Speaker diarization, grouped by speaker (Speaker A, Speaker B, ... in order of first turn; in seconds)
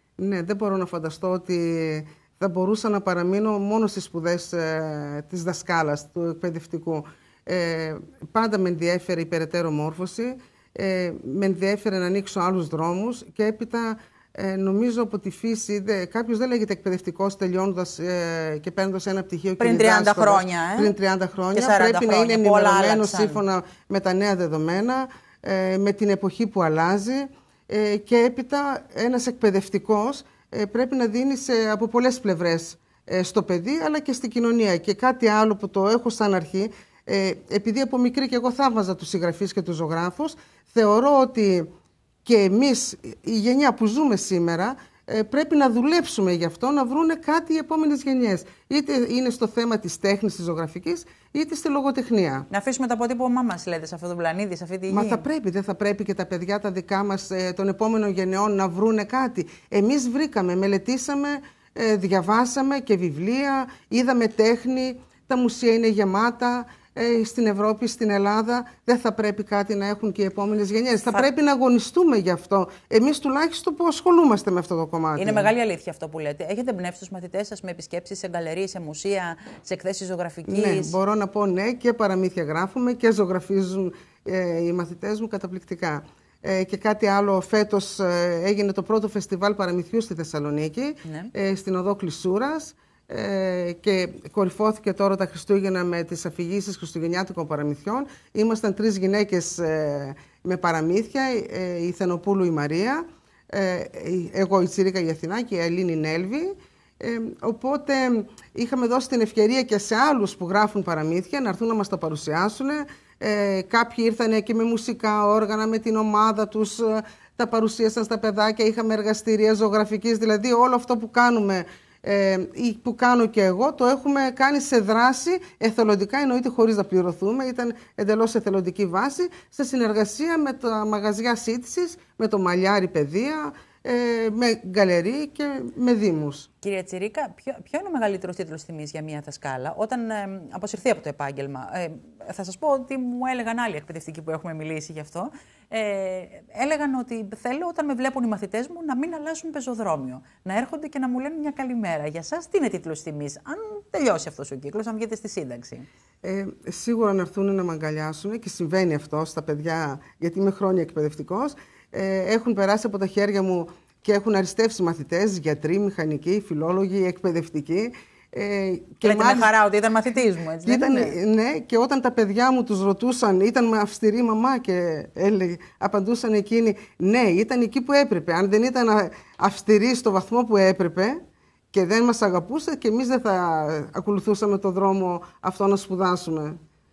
Speaker A: 0.2-41.7, 42.2-52.5, 54.9-75.5, 80.5-136.5, 156.2-169.5, 170.6-181.2, 181.7-186.6
Speaker B: 19.6-20.9, 21.5-23.4, 52.5-55.3, 75.2-81.0, 91.0-91.3, 136.6-155.9, 169.0-171.2